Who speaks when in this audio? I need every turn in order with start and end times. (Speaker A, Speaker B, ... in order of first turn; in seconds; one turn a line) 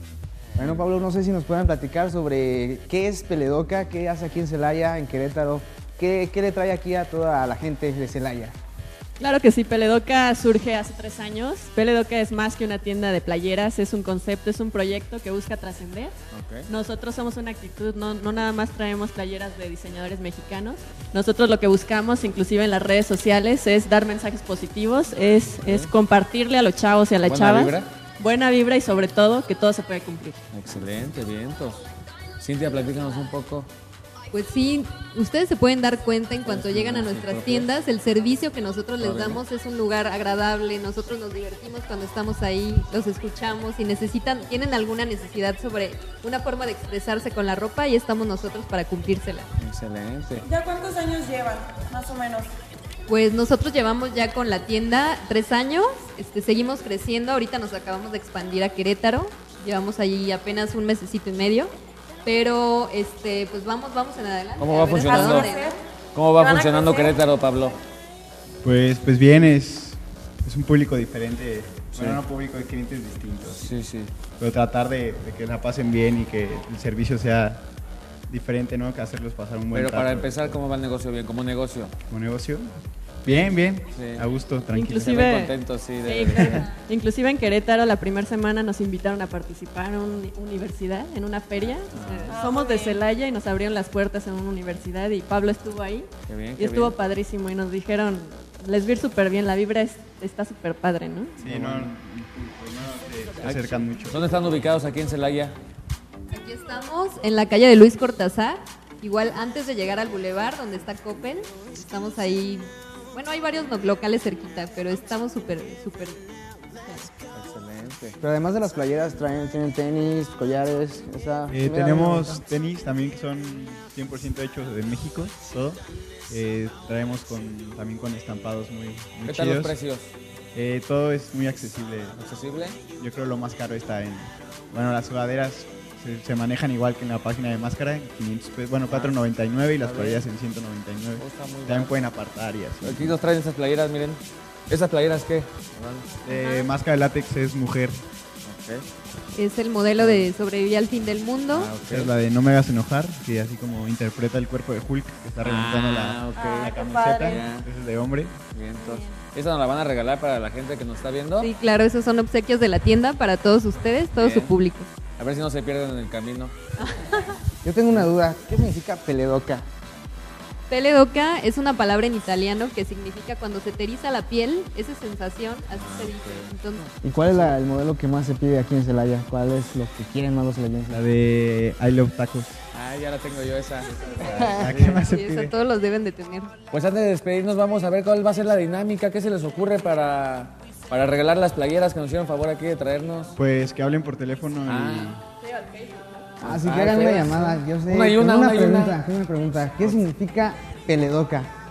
Speaker A: 0.6-8.5
Speaker B: 9.2-16.1
Speaker C: 16.3-16.7
Speaker B: 16.7-30.4
Speaker C: 25.6-25.9
Speaker C: 27.2-27.9
Speaker C: 30.5-31.8
Speaker C: 32.4-33.7
Speaker D: 34.3-49.5
Speaker C: 36.4-37.7
Speaker C: 39.0-39.4
Speaker C: 49.6-50.5
Speaker E: 50.4-52.5
Speaker D: 53.1-61.7
Speaker D: 62.2-65.7
Speaker C: 64.6-65.5
Speaker E: 65.0-65.8
Speaker C: 66.1-67.8
Speaker E: 66.3-67.2
Speaker F: 68.6-73.7
Speaker C: 71.9-72.2
Speaker C: 73.5-74.1
Speaker F: 74.4-77.6
Speaker F: 78.3-80.6
Speaker C: 79.7-81.9
Speaker F: 82.1-82.7
Speaker F: 83.2-85.1
Speaker C: 83.9-84.2
Speaker B: 84.7-101.4
Speaker C: 85.0-86.7
Speaker C: 91.9-92.4
Speaker E: 92.3-93.0
Speaker C: 96.3-97.0
Speaker C: 101.4-101.9
Speaker F: 101.4-104.3
Speaker C: 103.4-105.5
Speaker D: 106.3-116.2
Speaker C: 117.3-118.2
Speaker A: 118.2-122.4
Speaker F: 121.5-129.8
Speaker C: 129.2-130.1
Speaker F: 130.5-132.2
Speaker C: 132.1-132.8
Speaker F: 133.0-143.1
Speaker C: 138.8-139.2
Speaker C: 139.8-140.3
Speaker C: 141.2-142.1
Speaker C: 142.8-146.1
Speaker F: 146.2-148.0
Speaker C: 148.4-148.8
Speaker D: 149.3-151.7
Speaker C: 150.0-150.3
Speaker C: 151.5-152.2
Speaker F: 151.9-158.3
Speaker C: 155.4-157.7
Speaker E: 156.3-157.5
Speaker C: 158.5-161.5
Speaker E: 158.9-159.1
Speaker D: 161.4-164.9
Speaker C: 164.2-164.6
Speaker C: 165.2-166.5
Speaker D: 166.8-167.3
Speaker A: 167.6-169.6
Speaker D: 170.7-176.9
Speaker C: 175.7-177.5
Speaker A: 177.0-181.0
Speaker F: 180.9-182.6
Speaker C: 182.7-185.0
Speaker D: 184.2-186.5
Speaker F: 184.2-185.5
Speaker C: 186.7-193.4
Speaker F: 193.3-195.2
Speaker C: 194.7-195.2
Speaker B: 195.4-196.3
Speaker A: 196.4-201.5
Speaker C: 196.4-199.0